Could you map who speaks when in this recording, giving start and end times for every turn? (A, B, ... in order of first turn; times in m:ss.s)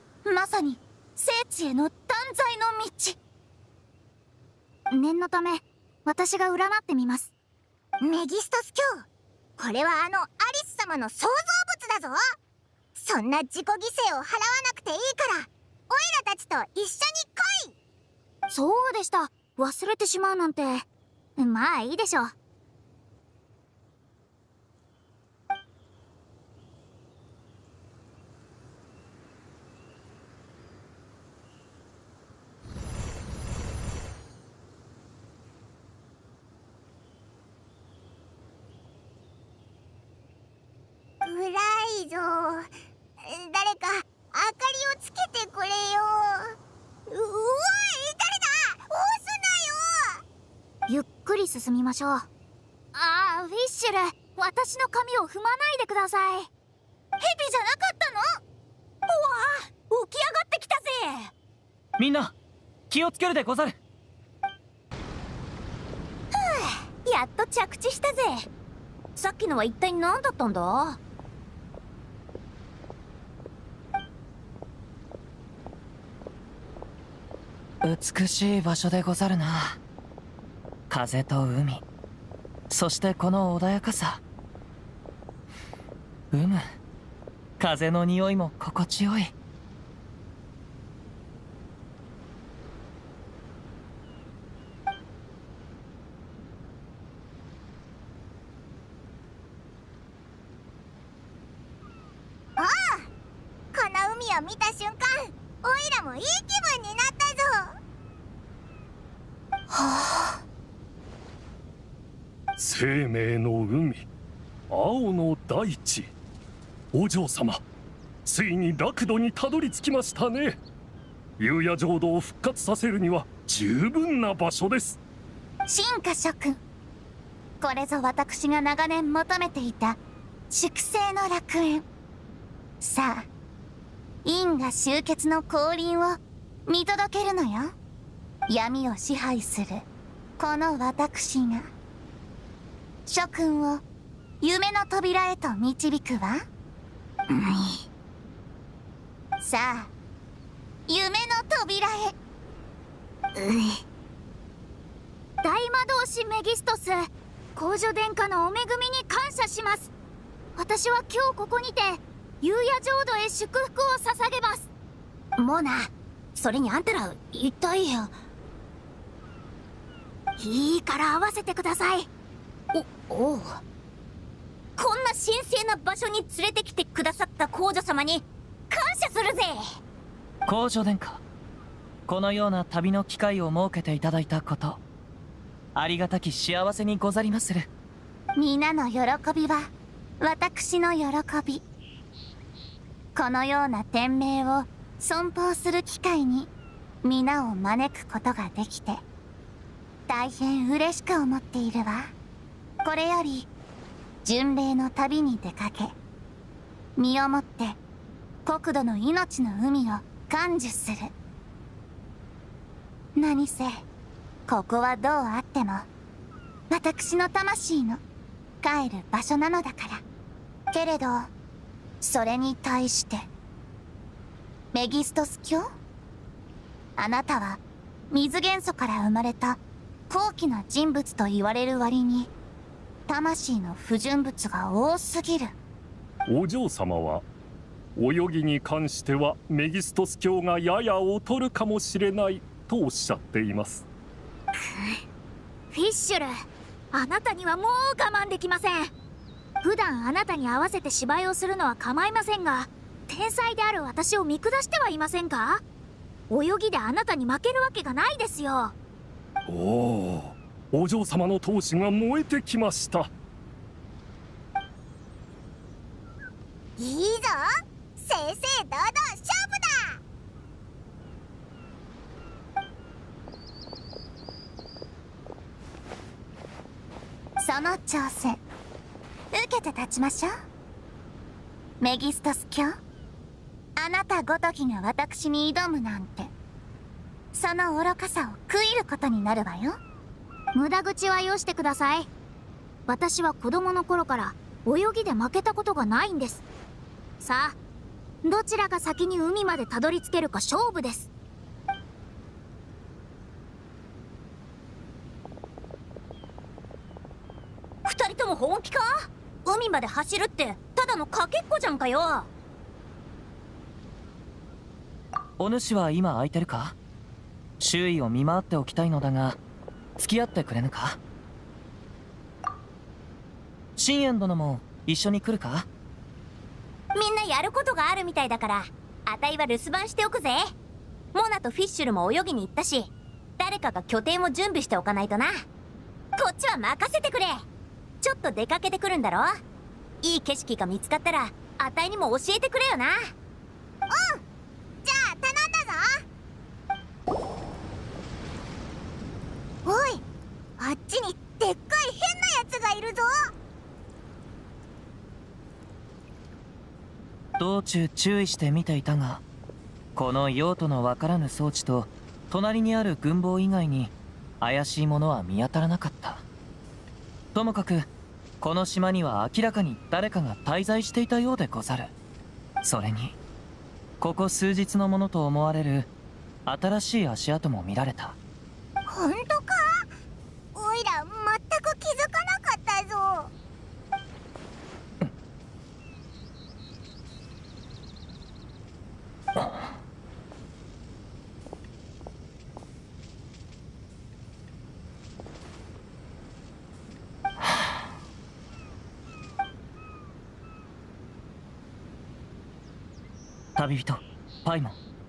0:00.2-0:03.2 A
0:04.9-0:07.3 B
0:08.0-0:09.0 C
0:09.6-0:12.2 C
0:13.0-0:17.7 C
0:18.5-0:20.8 B
0:21.4-0:22.3 B
0:41.2-0:46.5 C
0:47.1-0:50.2 C
0:50.9-0:52.3 B
0:52.9-0:56.5 B
0:57.2-0:58.4 B
0:59.1-1:01.3 D
1:02.0-1:02.3 E
1:02.9-1:03.8 E
1:06.3-1:08.4 D
1:09.2-1:11.0 D
1:17.8-1:19.8 E
1:20.9-1:21.8 E
1:22.7-1:24.2 E
1:26.3-1:26.6 E
1:27.6-1:29.3 E
1:42.6-1:43.1 C
1:43.7-1:47.7 C
1:49.7-1:50.4 C
1:52.6-1:54.0 F
1:54.7-1:56.1 F
1:56.9-1:57.6 F
1:58.2-2:00.6 F
2:01.4-2:05.0 F
2:05.7-2:06.6 A
2:07.6-2:11.8 A
2:12.8-2:13.3 A
2:14.2-2:17.7 A
2:18.5-2:19.8 A
2:20.4-2:21.7 A
2:23.1-2:23.8 A
2:24.4-2:26.4 A
2:27.3-2:27.8 C
2:29.4-2:29.9 A
2:30.9-2:32.2 A
2:33.4-2:33.8 C
2:35.4-2:39.9 B
2:40.6-2:44.7 B
2:45.4-2:48.1 D
2:50.4-2:52.1 B
2:52.7-2:53.6 D
2:54.8-2:59.6 D
3:00.4-3:01.2 E
3:02.1-3:04.8 E
3:05.7-3:07.7 E
3:08.4-3:11.6 A
3:13.2-3:16.5 A
3:17.0-3:19.0 A
3:20.1-3:22.1 A
3:22.8-3:23.5 A
3:24.2-3:25.9 A
3:27.0-3:27.8 A
3:28.4-3:31.1 A
3:33.2-3:33.8 A
3:34.5-3:35.9 A
3:36.7-3:38.0 A
3:38.6-3:40.0 A
3:40.7-3:41.3 A
3:42.0-3:43.3 A
3:44.7-3:45.7 A
3:47.0-3:52.3 A
3:53.1-3:55.5 A
3:56.3-3:57.2 F
3:58.0-4:03.8 F
4:04.6-4:05.0 C
4:05.7-4:08.9 B
4:09.6-4:15.6 B
4:16.3-4:18.7 B
4:19.5-4:23.1 F
4:26.8-4:30.0 C
4:37.4-4:38.4 A
4:39.3-4:40.3 A
4:41.8-4:42.8 A
4:43.8-4:46.3 A
4:47.3-4:49.8 A
4:50.5-4:52.1 B
4:52.9-4:56.4 B
4:57.2-4:57.6 B
4:58.2-5:01.1 B
5:07.8-5:12.3 D
5:15.4-5:16.8 E
5:17.6-5:19.4 E
5:20.0-5:21.0 E
5:23.8-5:25.7 E
5:26.9-5:30.5 D
5:31.1-5:35.4 D
5:36.2-5:37.4 D
5:38.0-5:39.3 D
5:40.0-5:43.1 D
5:43.9-5:44.2 C
5:44.8-5:46.0 C
5:49.6-5:50.0 C
5:50.6-5:53.3 C
5:57.4-5:59.2 E
6:00.0-6:06.2 E
6:07.3-6:07.9 E
6:08.4-6:11.9 E
6:12.6-6:13.2 E
6:14.0-6:15.9 E
6:16.4-6:18.2 E
6:18.8-6:19.9 C
6:20.5-6:23.3 C
6:43.6-6:44.7 E